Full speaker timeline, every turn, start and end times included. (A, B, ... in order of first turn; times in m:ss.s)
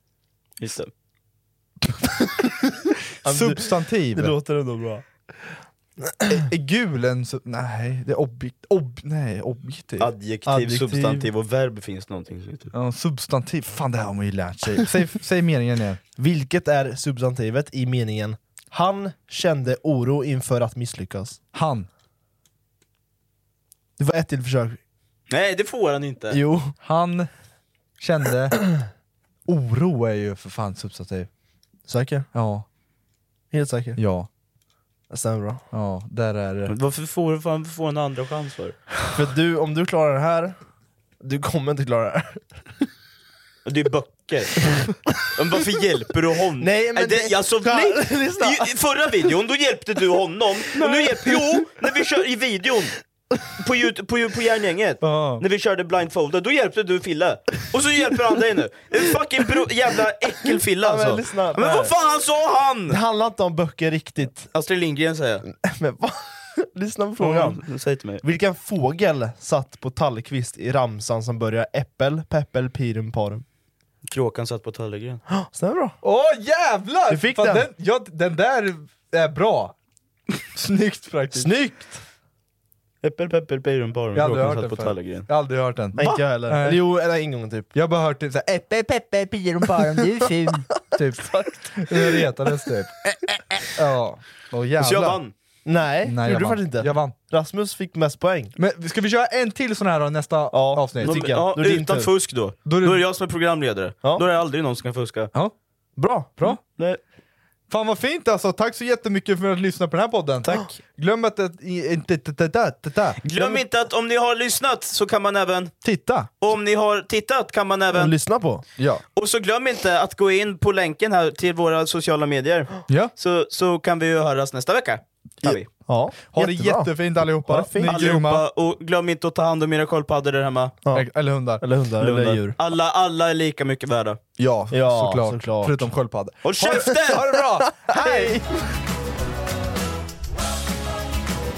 0:00.6-0:00.9 A
0:03.2-0:05.1 B
0:03.2-0:04.4 C
0:06.3-0:10.1 C
0:10.0-0:12.7 A
0:10.5-0:11.3 B
0:12.7-0:16.0 C
0:16.2-0:21.4 B
0:21.5-0:21.9 C
0:24.0-0:24.8 B
0:25.3-0:26.4 A
0:26.3-0:26.8 B
0:26.8-0:27.3 C
0:28.0-0:28.6 C
0:29.5-0:31.3 C
0:31.9-0:32.3 B
0:32.3-0:32.6 C
0:33.5-0:34.0 B
0:34.0-0:34.3 C
0:35.1-0:35.6 B
0:35.7-0:36.7 C
0:36.7-0:38.8 A
0:39.1-0:40.6 B
0:41.2-0:42.6 B
0:43.6-0:44.7 A
0:45.3-0:53.0 A
0:46.6-0:48.7 B
0:51.0-0:51.3 C
0:53.6-1:03.0 A
0:55.0-0:55.4 C
1:00.8-1:01.9 B
1:02.9-1:04.5 B
1:04.5-1:05.4 A
1:05.5-1:07.6 B
1:07.2-1:08.2 A
1:08.2-1:13.4 B
1:14.1-1:15.2 A
1:15.3-1:16.0 B
1:16.0-1:19.7 C
1:17.1-1:17.7 B
1:20.5-1:21.5 C
1:21.4-1:22.0 B
1:23.0-1:25.3 A
1:24.1-1:26.8 C
1:26.0-1:27.7 B
1:27.7-1:33.0 C
1:31.2-1:32.3 B
1:33.7-1:35.2 C
1:34.8-1:35.3 A
1:35.6-1:38.6 B
1:36.0-1:37.2 C
1:38.6-1:41.2 C
1:40.5-1:42.1 B
1:41.0-1:45.3 A
1:42.7-1:43.0 C
1:46.0-1:46.4 B
1:46.4-1:47.0 A
1:47.7-1:53.2 C
1:53.2-1:55.8 A
1:53.4-1:53.6 B
1:55.8-1:56.3 C
1:56.4-1:58.1 A
1:57.9-1:58.6 B
1:58.8-1:59.0 C
1:59.2-2:05.7 A
2:05.8-2:08.0 B
2:06.3-2:08.5 C
2:07.9-2:10.8 A
2:10.9-2:11.6 C
2:11.6-2:12.6 B
2:12.0-2:14.2 A
2:14.4-2:18.4 C
2:14.7-2:15.9 B
2:16.4-2:17.3 A
2:17.7-2:18.5 B